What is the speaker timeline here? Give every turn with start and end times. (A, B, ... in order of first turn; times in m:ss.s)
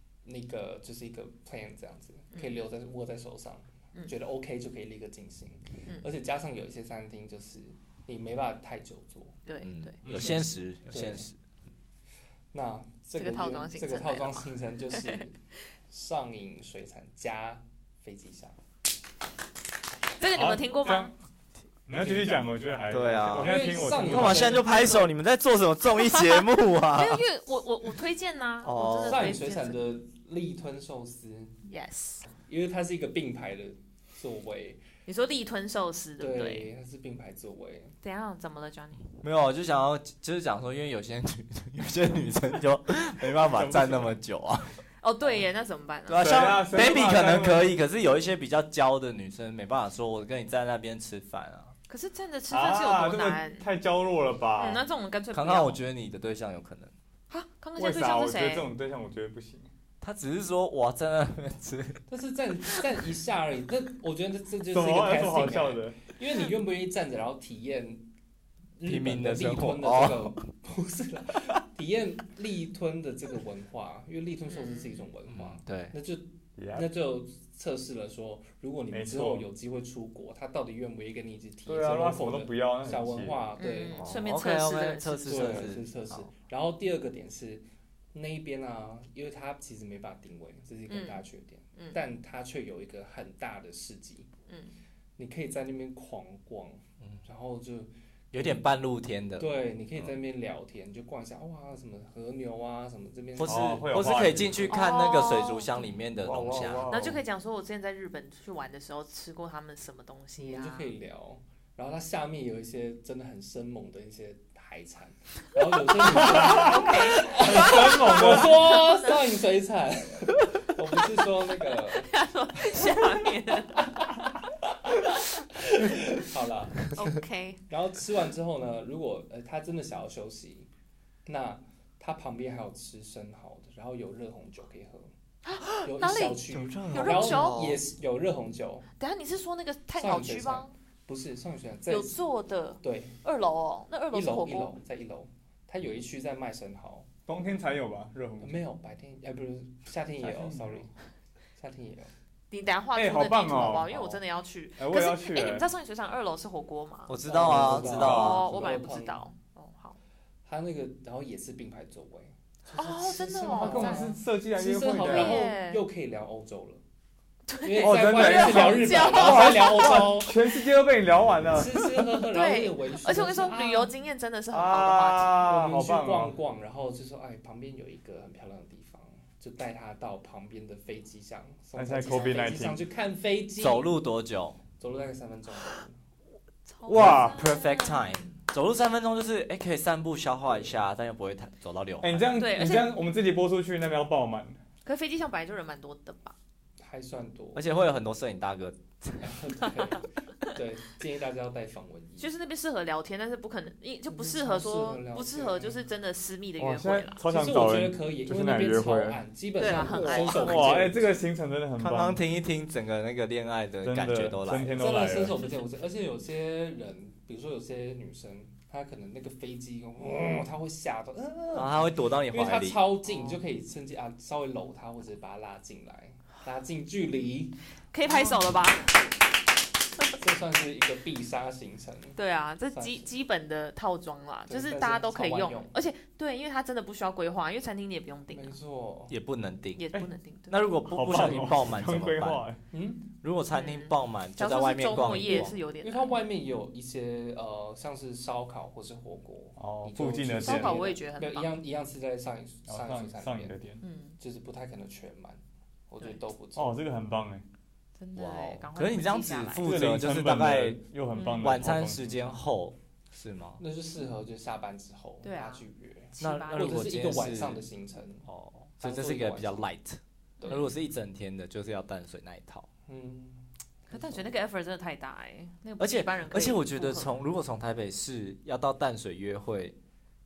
0:00.2-0:09.4 A
0:02.3-0:02.6 B
0:09.5-0:10.3 B
0:09.6-0:11.4 C
0:10.1-0:11.3 A
0:10.1-0:10.4 D
0:12.5-0:15.4 A
0:13.2-0:15.3 B
0:15.9-0:18.6 A
0:20.2-0:21.1 B
0:20.4-0:21.1 D
0:21.9-0:24.6 D
0:22.0-0:22.4 A
0:22.9-0:27.2 C
0:23.3-0:24.9 A
0:24.4-0:25.1 B
0:26.0-0:29.8 B
0:28.6-0:29.4 C
0:29.0-0:31.6 A
0:31.7-0:32.3 B
0:32.4-0:34.8 A
0:35.1-0:36.7 B
0:36.2-0:38.0 A
0:38.0-0:39.0 B
0:39.2-0:44.8 C
0:43.5-0:44.2 D
0:45.0-0:46.5 B
0:46.1-0:51.7 C
0:46.2-0:47.7 D
0:51.9-0:53.7 B
0:52.5-0:54.8 D
0:54.6-0:55.8 B
0:55.3-0:56.9 C
0:57.3-0:58.7 B
0:57.8-0:59.7 D
1:00.0-1:02.0 C
1:02.1-1:08.0 A
1:04.7-1:06.0 D
1:08.8-1:24.2 A
1:08.8-1:10.4 C
1:14.5-1:15.1 B
1:15.3-1:16.0 C
1:16.6-1:16.9 D
1:18.9-1:19.5 D
1:21.7-1:23.4 D
1:23.6-1:25.7 B
1:24.0-1:26.3 C
1:25.3-1:34.3 A
1:30.9-1:31.2 B
1:34.5-1:34.8 B
1:35.2-1:38.6 A
1:38.3-1:39.5 C
1:39.4-1:43.9 A
1:43.4-1:47.0 C
1:43.4-1:44.8 D
1:44.7-1:45.9 B
1:46.2-1:47.2 D
1:46.9-1:50.9 B
1:50.4-2:02.1 A
1:56.1-1:58.7 D
1:56.2-1:59.2 B
2:02.0-2:03.9 B
2:04.7-2:07.0 A
2:06.9-2:07.6 B
2:07.7-2:10.7 A
2:11.3-2:15.1 A
2:15.4-2:17.8 B
2:15.7-2:18.9 A
2:16.5-2:17.8 C
2:19.0-2:20.8 B
2:20.0-2:22.2 A
2:21.9-2:24.8 B
2:22.8-2:23.2 A
2:24.1-2:27.1 A
2:27.3-2:28.6 D
2:28.4-2:30.9 A
2:30.2-2:30.8 D
2:31.6-2:32.1 A
2:32.5-2:40.0 B
2:33.0-2:34.2 D
2:34.8-2:35.7 D
2:37.1-2:38.5 C
2:37.2-2:39.2 A
2:37.6-2:38.4 D
2:40.4-2:46.8 A
2:42.8-2:44.2 B
2:43.5-2:45.4 D
2:45.0-2:45.8 B
2:47.5-2:50.2 B
2:47.6-2:50.4 A
2:47.8-2:52.2 D
2:51.5-2:53.9 A
2:52.3-2:55.4 B
2:54.5-2:56.3 D
2:55.4-3:04.0 A
3:01.8-3:02.8 D
3:03.6-3:04.6 C
3:04.8-3:06.0 A
3:06.7-3:08.3 B
3:06.9-3:12.3 C
3:06.9-3:07.5 D
3:12.0-3:14.6 D
3:12.4-3:13.0 B
3:14.8-3:16.4 B
3:16.8-3:17.7 A
3:17.6-3:19.4 C
3:19.2-3:22.3 A
3:22.2-3:27.2 B
3:24.1-3:25.9 A
3:26.6-3:29.2 D
3:27.2-3:31.2 A
3:29.6-3:30.8 B
3:29.8-3:32.2 D
3:29.9-3:30.5 C
3:31.8-3:34.9 C
3:33.8-3:35.4 D
3:34.8-3:48.5 A
3:41.5-3:42.8 C
3:43.1-3:43.4 B
3:47.9-3:49.1 B
3:50.1-3:52.2 A
3:52.2-3:58.6 B
3:52.7-3:53.1 A
3:54.5-3:55.7 A
3:58.3-3:59.2 A
3:59.1-3:59.9 C
3:59.8-4:00.6 B
4:00.5-4:02.4 C
4:00.8-4:02.6 D
4:02.7-4:03.1 A
4:03.2-4:05.6 C
4:03.5-4:06.2 B
4:05.8-4:13.6 A
4:09.6-4:10.8 D
4:10.4-4:11.5 B
4:12.7-4:13.8 D
4:13.8-4:14.2 B
4:14.2-4:16.8 A
4:16.6-4:17.4 D
4:18.0-4:19.7 B
4:18.1-4:23.6 C
4:19.6-4:22.4 D
4:21.1-4:21.4 B
4:23.6-4:28.3 A
4:25.2-4:26.7 B
4:26.2-4:27.6 C
4:28.2-4:32.7 C
4:28.8-4:29.7 A
4:30.4-4:30.7 A
4:30.4-4:30.7 B
4:32.9-4:34.4 A
4:33.9-4:37.1 B
4:35.8-4:39.8 C